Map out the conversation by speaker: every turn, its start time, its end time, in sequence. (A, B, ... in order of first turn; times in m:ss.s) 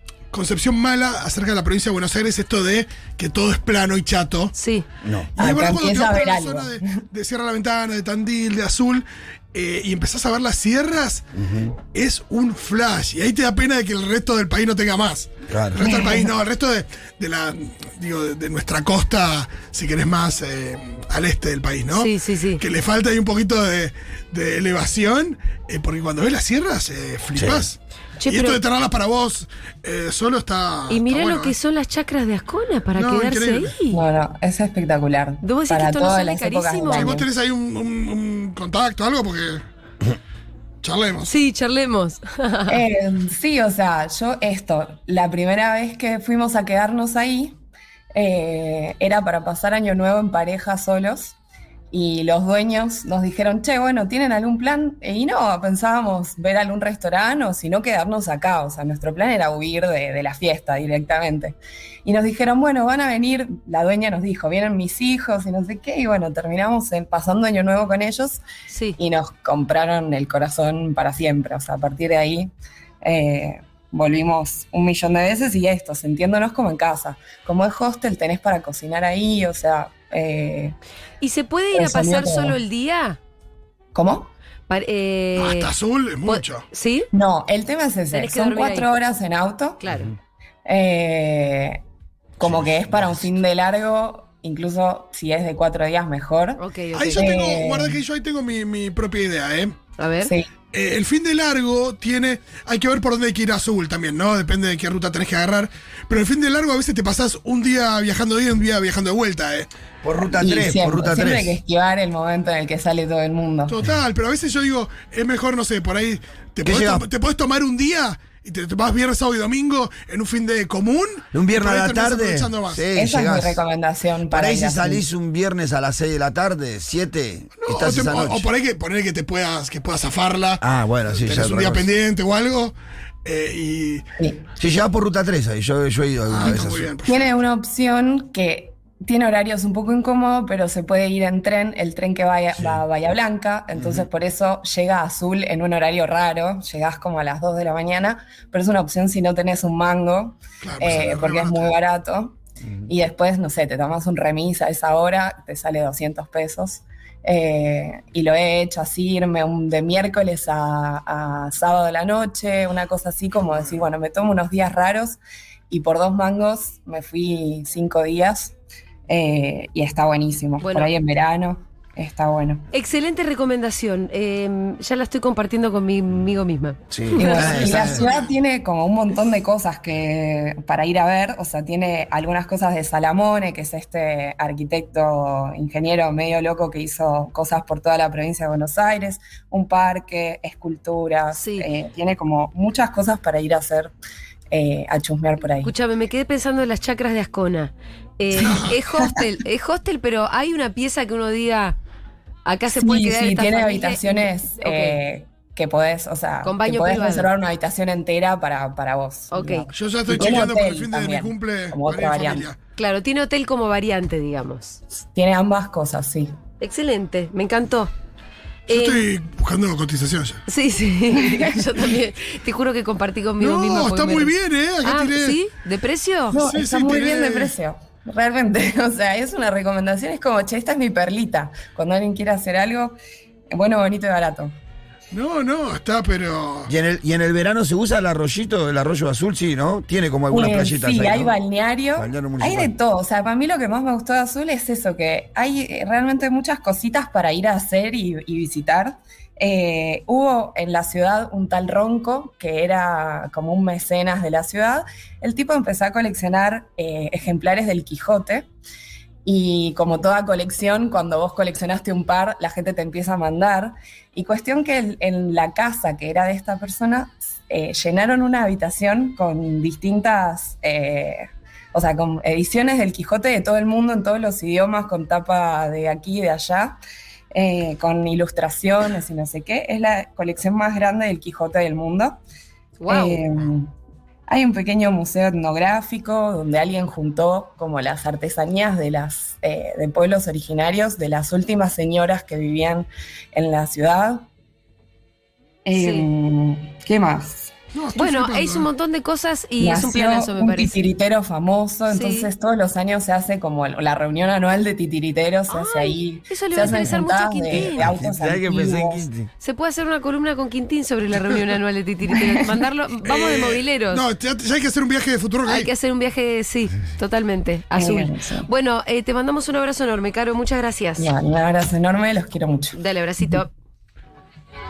0:00.3-0:04.5 A
0:04.5-0:04.8 B
0:05.0-0:05.3 C
0:05.3-0:11.2 A
0:05.4-0:07.0 D
0:11.4-0:11.7 C
0:11.9-0:31.5 A
0:15.5-0:15.8 C
0:15.8-0:16.3 D
0:21.9-0:22.6 B
0:27.4-0:27.6 C
0:28.2-0:28.6 B
0:30.9-0:34.0 B
0:32.9-0:33.8 A
0:33.9-0:37.3 D
0:35.4-0:37.1 B
0:36.9-0:39.6 A
0:40.8-0:41.3 A
0:41.2-0:42.8 B
0:42.7-0:47.6 D
0:48.1-0:51.4 D
0:51.9-1:08.4 D
1:08.7-1:09.0 B
1:09.0-1:20.7 D
1:21.2-1:23.2 B
1:21.7-1:22.6 D
1:23.9-1:24.3 D
1:24.7-1:25.7 B
1:25.4-1:26.6 A
1:26.2-1:27.1 B
1:27.1-1:29.8 D
1:28.1-1:28.9 B
1:29.8-1:30.1 B
1:30.6-1:31.8 D
1:32.4-1:36.6 D
1:32.4-1:33.1 C
1:36.6-1:37.2 B
1:36.9-1:39.7 A
1:37.1-1:38.0 D
1:40.0-1:40.3 B
1:40.2-1:40.5 D
1:40.7-1:49.7 A
1:50.0-1:51.6 C
1:50.3-1:53.7 D
1:53.7-2:02.8 A
1:56.6-1:57.0 C
2:01.3-2:03.6 C
2:02.9-2:05.1 D
2:04.3-2:08.5 C
2:07.5-2:12.7 A
2:10.6-2:11.9 C
2:13.2-2:14.0 A
2:14.6-2:16.9 C
2:16.2-2:17.3 A
2:17.0-2:45.2 D
2:23.7-2:24.0 C
2:30.6-2:31.8 A
2:45.7-2:48.5 D
2:49.1-2:52.6 D
2:50.6-2:50.9 B
2:52.7-2:57.8 B
2:56.9-2:58.1 C
2:57.1-3:13.9 D
3:11.3-3:11.7 B
3:14.5-3:15.7 D
3:15.5-3:21.8 B
3:22.4-3:25.0 B
3:22.7-3:32.5 D
3:26.4-3:27.3 B
3:29.3-3:29.7 B
3:29.7-3:32.6 A
3:32.8-3:34.8 B
3:35.1-3:36.3 D
3:36.6-3:37.9 B
3:38.7-3:40.4 A
3:38.7-3:39.0 B
3:40.5-3:46.3 B
3:41.1-3:41.7 D
3:43.4-3:45.4 A
3:46.3-3:53.0 D
3:46.3-3:47.5 A
3:53.5-3:54.5 D
3:55.1-3:56.7 A
3:56.7-4:01.4 C
4:00.3-4:18.5 D
4:01.9-4:02.7 C
4:19.2-4:36.8 D
4:37.3-4:42.2 D
4:42.8-4:43.2 B
4:42.9-4:43.7 D
4:44.3-4:54.3 D
4:55.6-4:57.5 D
4:55.7-4:56.1 B
4:57.7-4:58.7 A
4:58.0-5:00.8 B
4:59.6-5:09.1 D
5:01.9-5:02.3 B
5:05.5-5:07.9 B
5:06.6-5:07.0 C
5:07.5-5:09.3 C
5:09.4-5:14.0 B
5:13.0-5:15.7 A
5:15.4-5:21.1 B
5:17.7-5:18.5 D
5:21.0-5:22.8 D
5:22.7-5:23.5 B